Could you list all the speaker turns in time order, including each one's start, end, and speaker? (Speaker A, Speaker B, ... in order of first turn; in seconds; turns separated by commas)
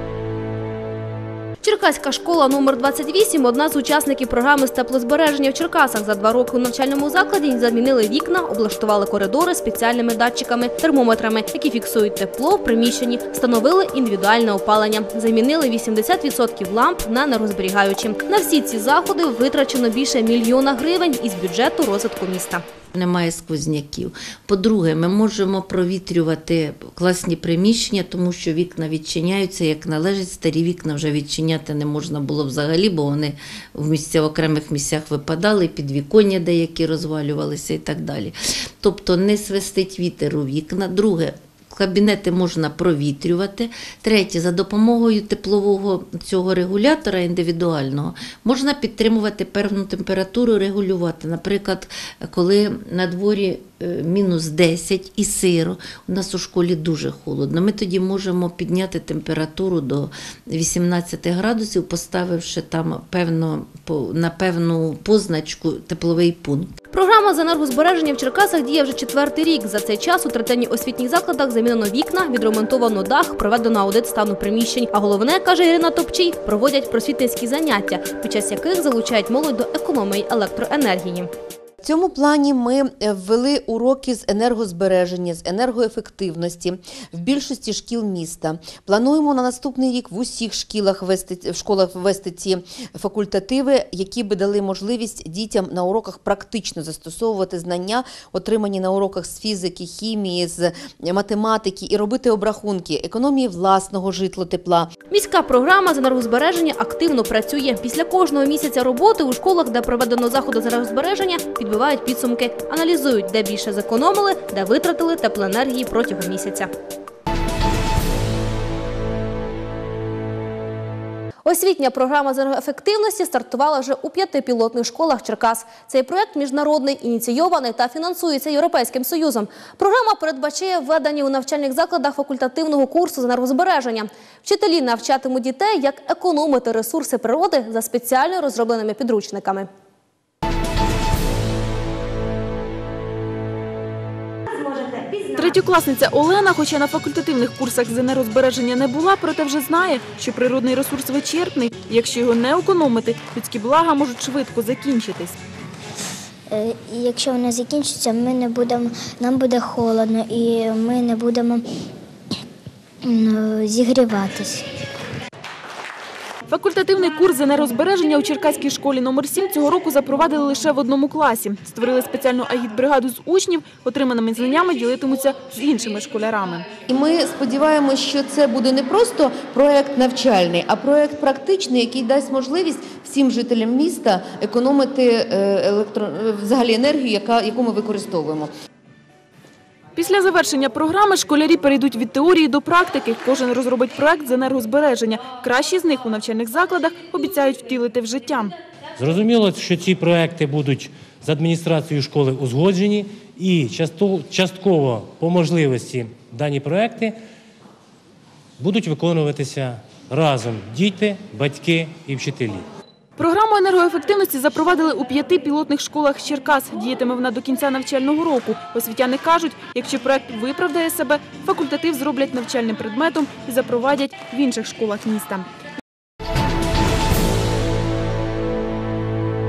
Speaker A: 1.6-22.6, Speaker B: 22.9-66.7, Speaker A: 66.9-81.3, Speaker C: 81.8-104.9, Speaker A: 105.1-116.7, Speaker A: 121.5-139.7, Speaker D: 145.4-155.4, Speaker E: 156.5-161.6, Speaker E: 163.1-164.6, Speaker D: 166.5-176.7, Speaker C: 176.9-188.5, Speaker D: 190.0-198.6, Speaker F: 199.0-207.2, Speaker F: 208.6-212.6, Speaker D: 213.2-225.5